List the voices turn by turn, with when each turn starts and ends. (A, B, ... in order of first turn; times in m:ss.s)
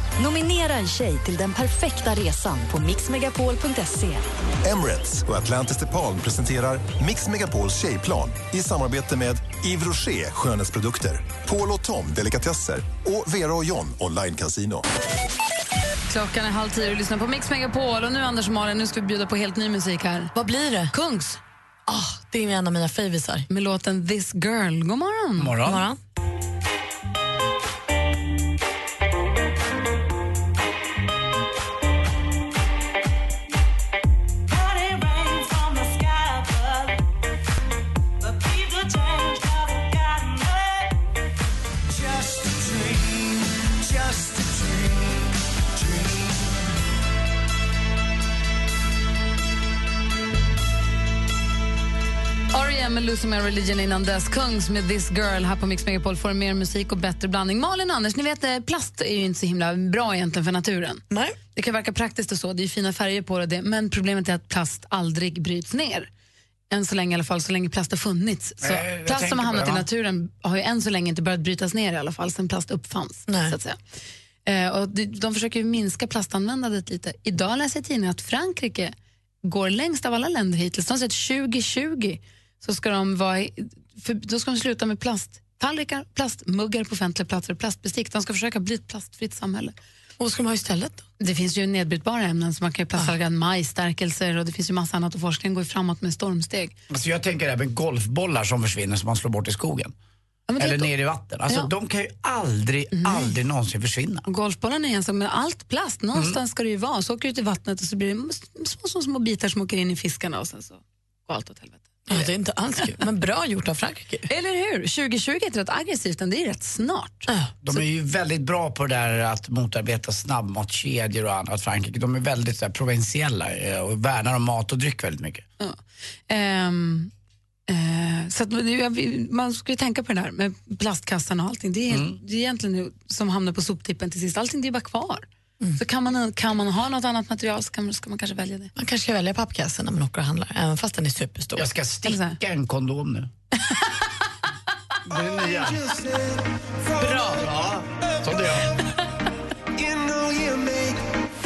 0:00.2-0:04.3 A
0:04.6-0:14.8 B
0:16.1-0:20.3 C
0:20.4-0:20.9 D
0:20.9-0:21.4 C
0:21.9-0:23.5 D
0:23.5-0:25.7 C
0:25.4-0:25.8 E
0:25.6-0:26.0 D
0:42.1-0:43.4 F
0:44.3-0:45.0 F
0:52.5-1:01.0 C
1:01.1-1:01.4 D
1:01.6-1:06.1 C
1:06.7-1:13.8 C
1:08.6-1:09.9 E
1:13.3-1:13.6 D
1:14.4-1:29.8 C
1:30.2-1:31.0 D
1:31.2-1:36.7 C
1:36.9-1:39.9 E
1:40.5-1:40.9 C
1:40.6-1:44.3 E
1:43.0-1:43.3 C
1:44.3-1:52.3 C
1:46.1-1:46.4 E
1:52.1-1:54.3 D
1:54.3-1:57.3 C
1:57.3-1:57.5 D
1:57.6-2:05.4 E
2:05.6-2:07.1 C
2:07.7-2:18.7 C
2:11.9-2:12.2 E
2:18.8-2:21.7 D
2:21.6-2:23.3 E
2:22.1-2:22.4 C
2:25.1-2:25.8 E
2:25.3-2:27.4 F
2:27.0-2:27.4 D
2:27.3-2:28.7 E
2:29.8-2:31.0 F